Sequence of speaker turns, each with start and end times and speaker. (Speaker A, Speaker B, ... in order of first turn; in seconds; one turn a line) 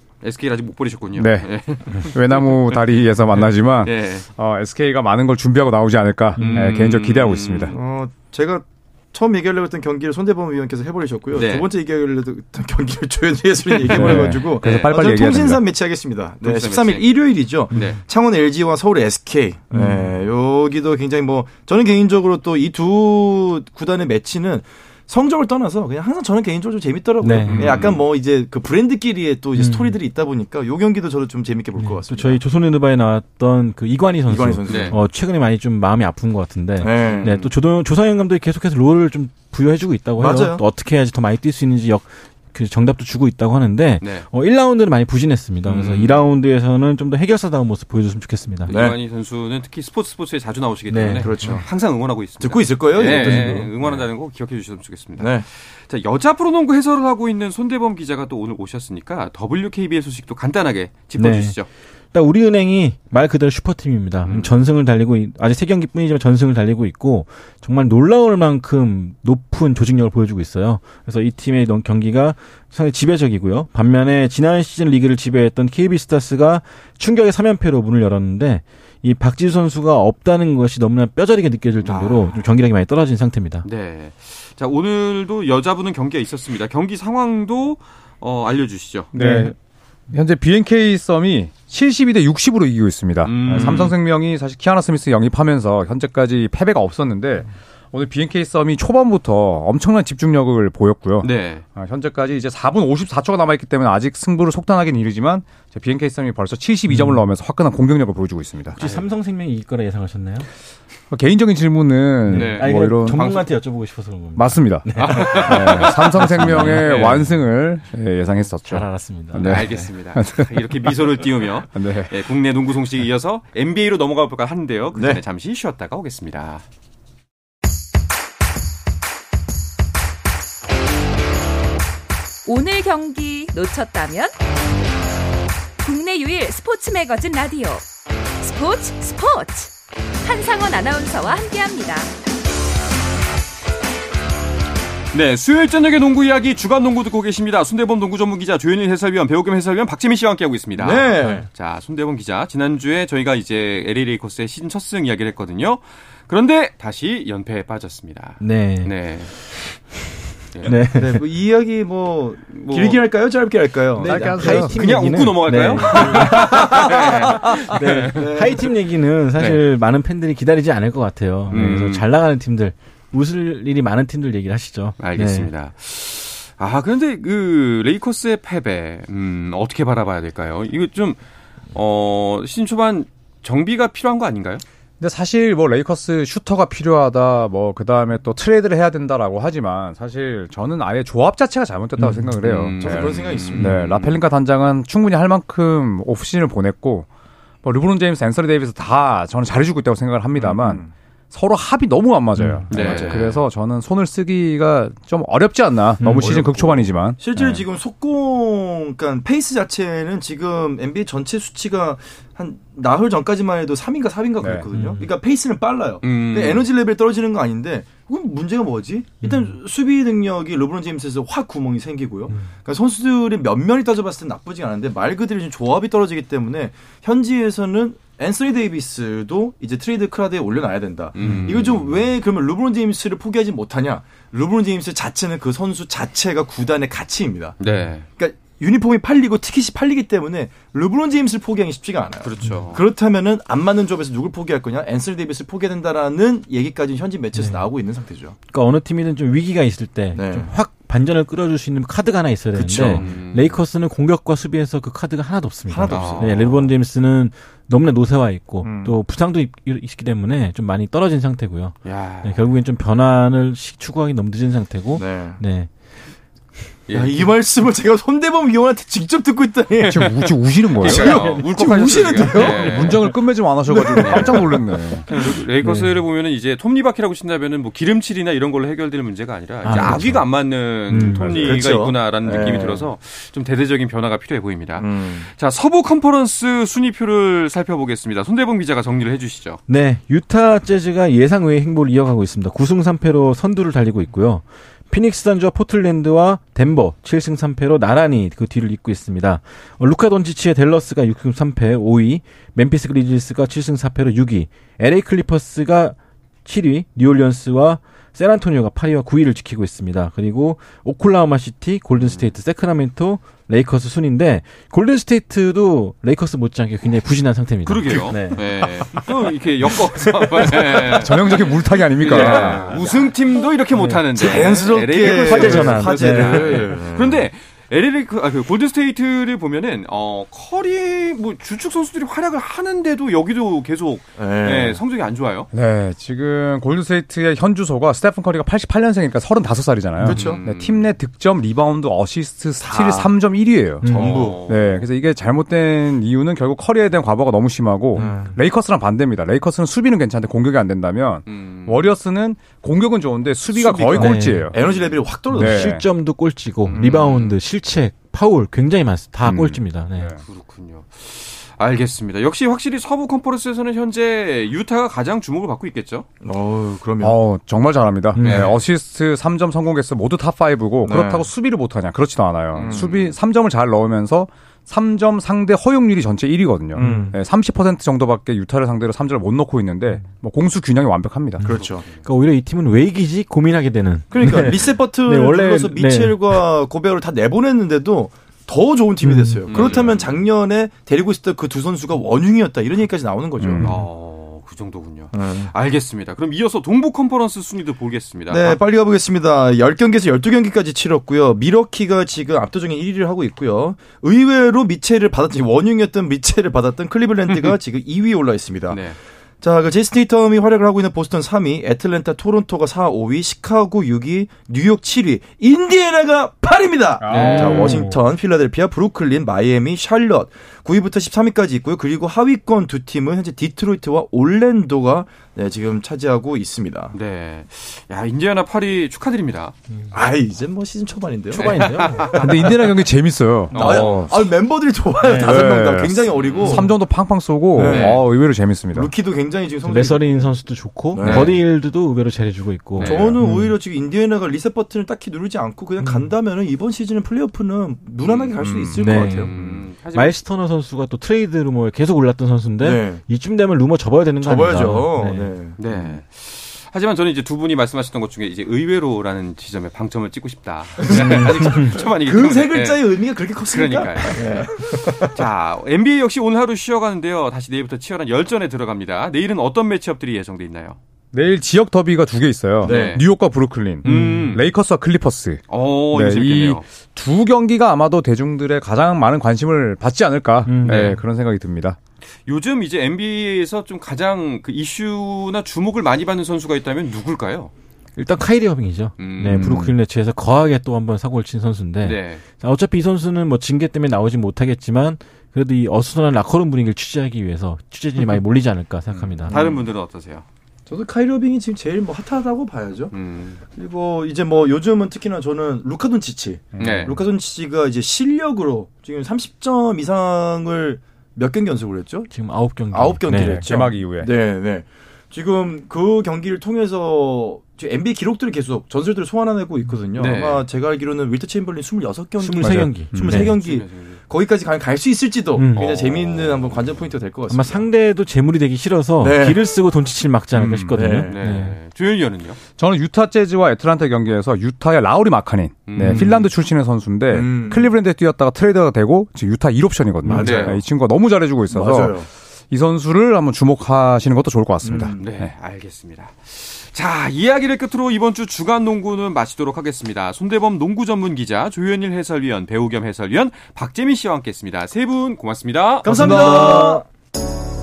Speaker A: 0.2-4.3
Speaker B: 1.2-7.8
Speaker C: 6.4-6.8
Speaker A: 6.4-7.8
Speaker D: 7.7-32.4
Speaker A: 11.3-11.7
Speaker A: 13.7-14.9
Speaker B: 13.9-15.6
Speaker C: 14.0-14.3
Speaker A: 16.4-17.1
Speaker A: 17.7-18.0
Speaker C: 17.7-18.0
Speaker C: 19.7-20.2
Speaker C: 27.2-27.8
Speaker A: 27.5-28.0
Speaker C: 29.6-30.0
Speaker C: 31.8-48.7
Speaker D: 34.3-35.0
Speaker A: 34.7-35.0
Speaker D: 36.8-37.4
Speaker A: 37.0-37.5
Speaker D: 40.2-40.6
Speaker A: 44.0-44.3
Speaker A: 45.7-46.2
Speaker A: 48.7-61.7
Speaker D: 48.7-49.0
Speaker C: 50.9-51.3
Speaker D: 51.2-51.7
Speaker D: 52.4-54.0
Speaker C: 53.0-53.7
Speaker D: 55.2-55.5
Speaker C: 61.2-61.6
Speaker C: 62.1-83.7
Speaker A: 64.2-64.5
Speaker A: 81.8-82.5
Speaker A: 83.6-89.1
Speaker C: 89.1-89.5
Speaker B: 89.1-89.5
Speaker B: 90.1-108.9
Speaker A: 93.2-94.0
Speaker A: 101.2-101.6
Speaker C: 106.9-107.2
Speaker C: 108.8-110.5
Speaker B: 111.1-113.4
Speaker C: 112.3-117.3
Speaker A: 112.3-113.4
Speaker B: 114.4-120.5
Speaker A: 115.0-117.3
Speaker C: 118.7-119.9
Speaker A: 119.4-126.6
Speaker B: 121.7-122.2
Speaker D: 124.9-125.2
Speaker E: 132.4-134.3
Speaker E: 135.8-137.8
Speaker E: 138.4-139.7
Speaker E: 140.2-142.1
Speaker A: 145.1-159.6
Speaker D: 150.8-151.5
Speaker C: 158.4-158.9
Speaker C: 160.6-161.2
Speaker D: 160.9-164.7
Speaker A: 162.5-163.0
Speaker C: 164.0-175.5
Speaker B: 164.0-164.8
Speaker A: 164.6-168.2
Speaker D: 165.9-168.7
Speaker A: 171.5-172.0
Speaker A: 175.0-181.2
Speaker A: 181.7-184.6
Speaker B: 185.0-197.1
Speaker C: 192.0-192.3
Speaker A: 192.4-194.2
Speaker D: 192.8-193.8
Speaker B: 197.6-207.6
Speaker D: 200.4-200.9
Speaker C: 202.4-202.7
Speaker D: 202.7-203.3
Speaker A: 202.7-203.4
Speaker C: 206.0-206.3
Speaker A: 206.2-206.6
Speaker D: 206.2-237.6
Speaker B: 214.4-214.7
Speaker C: 214.7-215.1
Speaker A: 216.0-216.7
Speaker C: 219.2-219.6
Speaker A: 231.2-231.9
Speaker C: 231.2-231.5
Speaker A: 237.6-238.1
Speaker D: 238.1-248.4
Speaker A: 242.2-242.8
Speaker C: 247.4-247.6
Speaker C: 248.5-265.7
Speaker D: 250.1-250.5
Speaker D: 252.6-253.2
Speaker A: 252.7-253.6
Speaker D: 255.7-256.4
Speaker A: 255.9-256.7
Speaker D: 258.6-259.0
Speaker A: 261.9-262.4
Speaker D: 264.9-265.4
Speaker A: 266.9-267.3
Speaker D: 266.9-270.1
Speaker A: 269.8-273.1
Speaker B: 269.9-271.4
Speaker D: 270.8-273.1
Speaker C: 271.2-272.8
Speaker B: 272.5-275.1
Speaker D: 273.7-275.4
Speaker A: 274.0-274.5
Speaker A: 275.1-289.6
Speaker C: 275.6-276.0
Speaker C: 279.6-280.3
Speaker D: 279.7-280.0
Speaker C: 280.9-281.3
Speaker B: 281.1-281.6
Speaker D: 281.1-282.9
Speaker D: 284.8-285.3
Speaker C: 289.7-318.4
Speaker A: 317.7-335.5
Speaker D: 320.0-323.4
Speaker B: 320.9-322.8
Speaker C: 323.8-324.4
Speaker D: 324.1-327.3
Speaker C: 324.9-326.7
Speaker B: 325.4-326.4
Speaker D: 334.2-334.8
Speaker B: 335.5-354.6
Speaker D: 340.0-340.4
Speaker A: 340.1-340.9
Speaker D: 342.6-343.1
Speaker C: 343.8-344.2
Speaker D: 343.9-344.4
Speaker A: 343.9-344.9
Speaker D: 348.0-348.3
Speaker C: 348.0-348.3
Speaker A: 351.3-351.9
Speaker D: 353.5-355.8
Speaker C: 353.9-354.5
Speaker A: 354.6-354.9
Speaker C: 355.3-360.1
Speaker B: 355.3-355.8
Speaker A: 356.6-357.4
Speaker D: 356.8-357.1
Speaker B: 359.2-360.2
Speaker A: 360.2-366.1
Speaker D: 366.2-367.2
Speaker B: 367.0-381.5
Speaker C: 368.1-368.5
Speaker A: 368.2-368.6
Speaker D: 370.8-371.3
Speaker A: 372.5-373.1
Speaker D: 372.6-373.1
Speaker C: 376.8-377.2
Speaker D: 376.8-377.1
Speaker C: 381.4-386.4
Speaker D: 381.4-381.9
Speaker D: 384.1-393.8
Speaker C: 389.0-389.4
Speaker A: 389.5-390.2
Speaker B: 389.5-389.9
Speaker B: 393.4-393.7
Speaker A: 393.6-398.6
Speaker D: 395.1-395.5
Speaker D: 398.3-426.9
Speaker A: 407.3-407.6
Speaker A: 408.7-409.0
Speaker B: 417.0-417.8
Speaker A: 417.1-417.8
Speaker C: 417.4-418.0
Speaker A: 426.9-429.6
Speaker D: 429.9-432.5
Speaker C: 431.3-432.2
Speaker A: 431.4-432.5
Speaker B: 432.2-434.2
Speaker A: 433.5-434.1
Speaker D: 433.5-436.7
Speaker C: 435.0-435.5
Speaker B: 435.1-438.9
Speaker A: 436.2-436.6
Speaker D: 437.6-438.0
Speaker A: 437.6-438.0
Speaker D: 438.7-440.3
Speaker C: 439.6-443.6
Speaker D: 440.9-441.4
Speaker A: 441.0-441.3
Speaker A: 442.8-443.2
Speaker D: 442.8-449.6
Speaker C: 445.8-446.1
Speaker A: 448.0-448.4
Speaker B: 448.4-448.8
Speaker C: 448.8-455.3
Speaker A: 449.0-450.2
Speaker D: 452.6-453.0
Speaker D: 454.2-456.0
Speaker A: 455.6-470.8
Speaker D: 460.8-465.2
Speaker C: 461.5-461.7
Speaker B: 471.1-481.8
Speaker D: 472.6-473.0
Speaker A: 472.6-473.0
Speaker C: 473.8-474.4
Speaker A: 473.8-474.4
Speaker A: 475.5-476.7
Speaker C: 480.5-481.0
Speaker A: 480.6-481.0
Speaker A: 482.3-487.5
Speaker C: 488.0-499.4
Speaker A: 489.0-489.6
Speaker D: 489.2-489.7
Speaker A: 491.8-492.2
Speaker D: 499.0-499.7
Speaker A: 499.3-500.2
Speaker D: 500.7-502.9
Speaker A: 502.9-503.4
Speaker D: 503.5-512.1
Speaker B: 506.5-506.9
Speaker A: 506.6-507.0
Speaker C: 512.1-513.4
Speaker D: 512.7-527.6
Speaker B: 513.1-514.1
Speaker A: 520.0-520.5
Speaker C: 522.2-523.3
Speaker B: 522.4-523.3
Speaker A: 523.2-524.0
Speaker C: 525.4-525.9
Speaker C: 527.3-531.6
Speaker D: 529.0-529.5
Speaker B: 530.3-530.8
Speaker D: 530.8-531.2
Speaker A: 531.1-532.4
Speaker B: 532.6-545.3
Speaker A: 535.7-536.3
Speaker D: 535.8-536.1
Speaker D: 537.1-537.7
Speaker D: 540.1-540.6
Speaker A: 540.1-540.6
Speaker D: 541.5-542.1
Speaker D: 544.6-545.0
Speaker A: 545.0-556.8
Speaker D: 555.8-556.8
Speaker C: 555.9-556.7